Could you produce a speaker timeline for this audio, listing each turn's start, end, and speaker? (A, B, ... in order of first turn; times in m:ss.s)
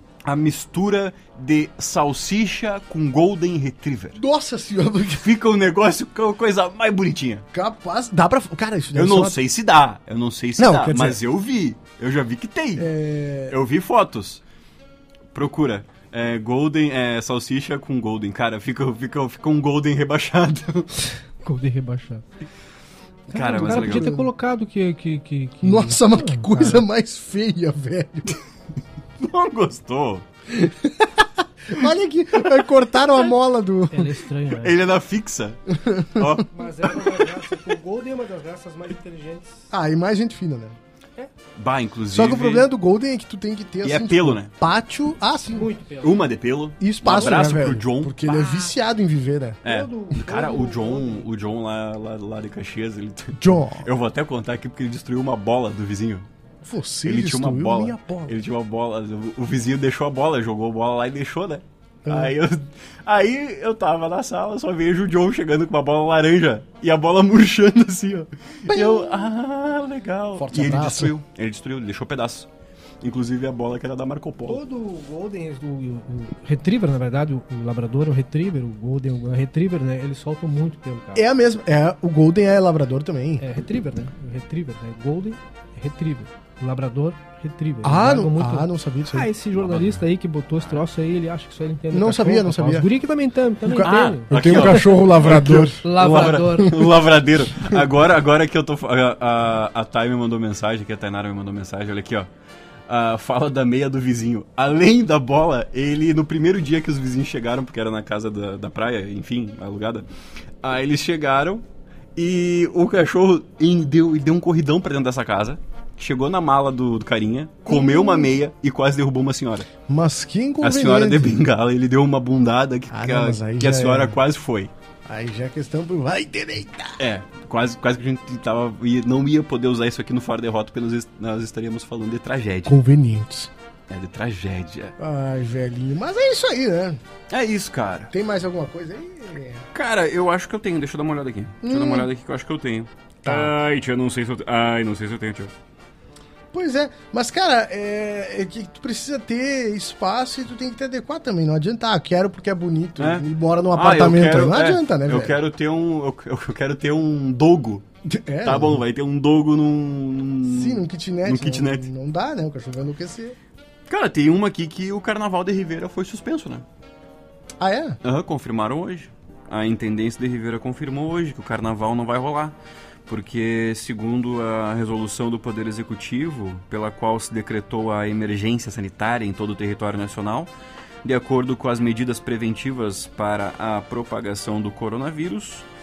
0:00.2-0:04.2 A
0:04.2-0:05.3 B
0:05.2-0:07.4 A
0:07.5-0:09.4 B
0:09.0-0:12.9 A
0:10.6-0:11.2 B
0:12.8-0:13.6 B
0:13.5-0:14.4 A
0:15.3-0:20.9 A
0:21.4-0:22.2 C
0:23.3-0:24.3 B
0:23.3-0:24.1 A
0:23.3-0:26.8 C
0:25.6-0:28.4 B
0:29.2-0:30.2 A
0:30.5-0:34.1 B
0:33.9-0:34.8 C
0:34.6-0:36.5 A
0:35.8-0:36.4 B
0:36.5-0:39.7 C
0:39.7-0:40.8 B
0:41.6-0:42.7 A
0:42.1-0:45.7 B
0:43.8-0:44.5 A
0:45.5-0:46.2 C
0:46.0-0:48.7 A
0:46.8-0:49.6 B
0:49.6-0:56.3 A
0:49.6-0:51.3 C
0:53.4-0:53.9 B
0:56.6-0:58.4 B
0:57.0-1:12.5 A
1:02.1-1:02.3 B
1:08.7-1:09.3 B
1:10.4-1:11.1 B
1:13.0-1:14.6 A
1:14.5-1:21.2 C
1:21.2-1:23.4 B
1:23.4-1:34.9 C
1:27.8-1:29.3 B
1:29.6-1:30.0 A
1:31.9-1:32.9 B
1:33.6-1:35.8 B
1:33.8-1:42.3 A
1:35.8-1:36.8 C
1:42.9-1:50.1 A
1:50.6-1:51.6 A
1:52.2-1:59.7 A
1:57.7-1:58.4 B
1:59.9-2:01.4 B
2:00.6-2:04.7 A
2:02.9-2:04.2 B
2:05.1-2:07.0 B
2:07.0-2:12.8 A
2:12.7-2:13.5 B
2:13.9-2:15.0 A
2:15.0-2:17.0 B
2:17.3-2:18.1 A
2:18.1-2:19.6 B
2:19.7-2:25.5 A
2:21.6-2:22.1 B
2:23.2-2:23.5 B
2:26.5-2:35.4 B
2:33.0-2:37.8 A
2:38.1-2:38.8 B
2:38.4-2:41.9 A
2:40.5-2:43.4 B
2:43.9-2:46.6 A
2:47.6-2:48.0 B
2:48.0-2:52.6 A
2:53.1-3:00.5 A
3:01.0-3:05.7 A